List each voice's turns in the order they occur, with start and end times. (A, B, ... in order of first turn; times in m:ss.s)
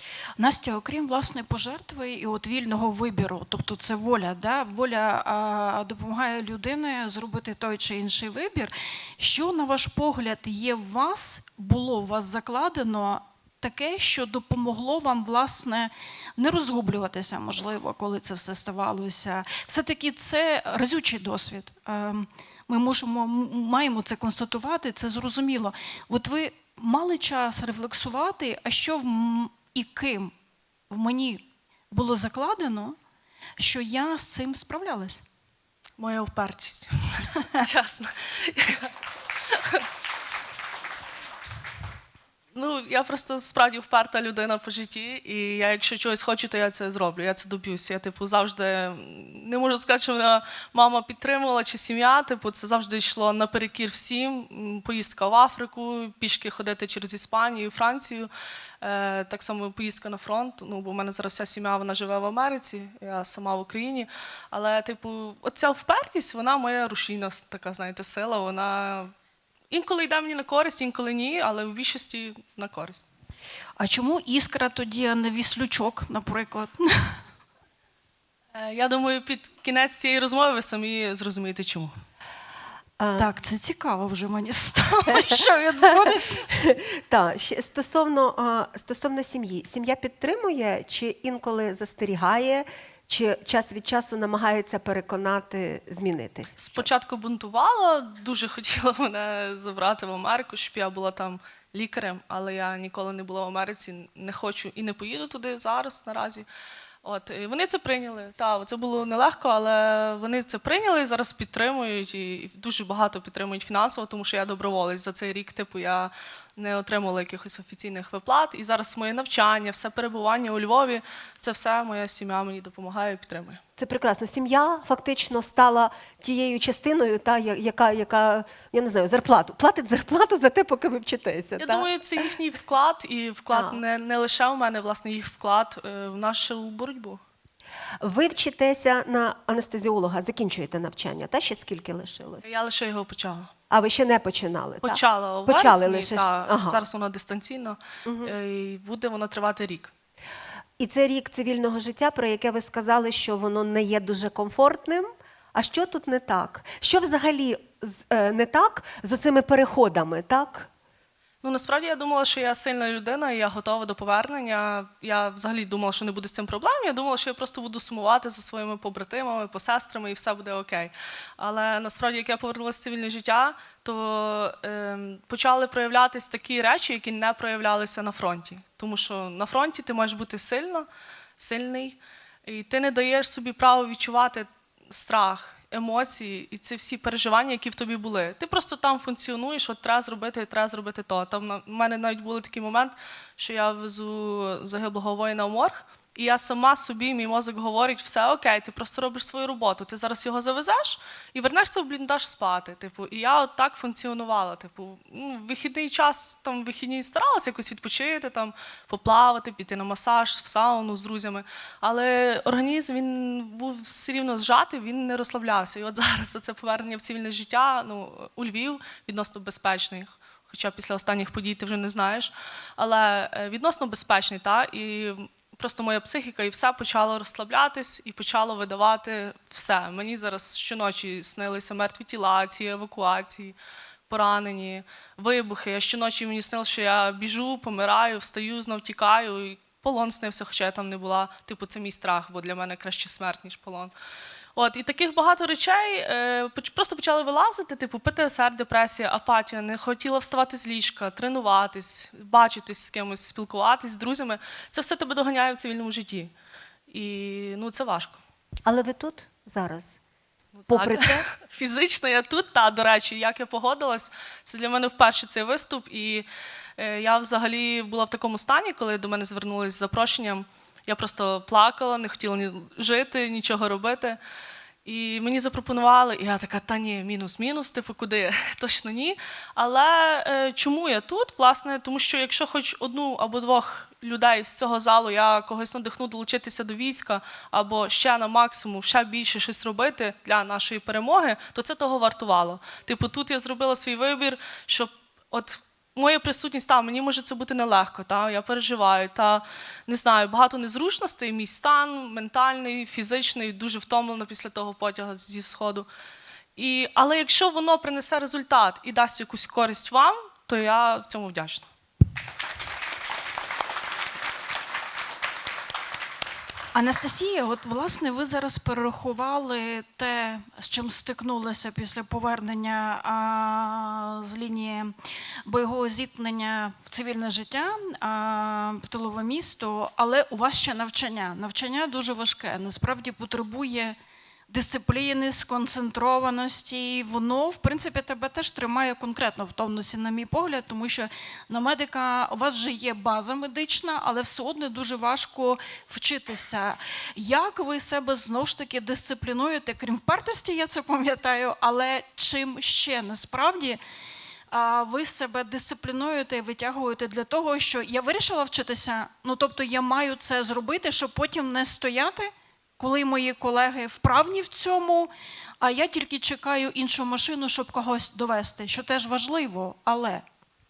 0:00.4-0:30.3 A
0:30.9-0:33.0 A
0:33.6-0:35.2 A
0:36.0-0:38.9 B
0:39.5-0:39.9 B
0:42.5-0:58.3 B
0:58.8-1:09.1 B
1:09.7-1:13.1 B
1:13.8-1:17.2 A
1:18.5-1:21.9 B
1:23.0-1:23.3 C
1:23.2-1:26.5 A
1:26.5-1:36.9 C
1:36.6-1:46.5 B
1:47.0-2:03.6 B
2:03.8-2:12.2 C
2:11.6-2:17.2 B
2:13.5-2:13.8 C
2:18.0-2:22.4 C
2:22.4-2:23.5 B
2:23.7-2:26.8 C
2:24.8-2:29.9 B
2:28.1-2:28.3 C
2:30.8-2:40.7 C
2:41.4-3:00.9 B
3:01.4-3:53.6 B
3:54.1-4:03.9 B
4:04.6-4:16.3 B
4:16.9-4:18.2 B
4:18.7-4:20.0 C
4:20.5-4:26.3 B
4:20.7-4:21.3 C
4:26.8-4:34.2 B
4:34.8-5:05.9 B
5:06.6-5:11.7 B
5:16.7-5:25.0 A
5:25.5-5:34.0 A
5:34.5-5:53.8 A
5:54.5-6:05.1 A
6:05.6-6:10.2 A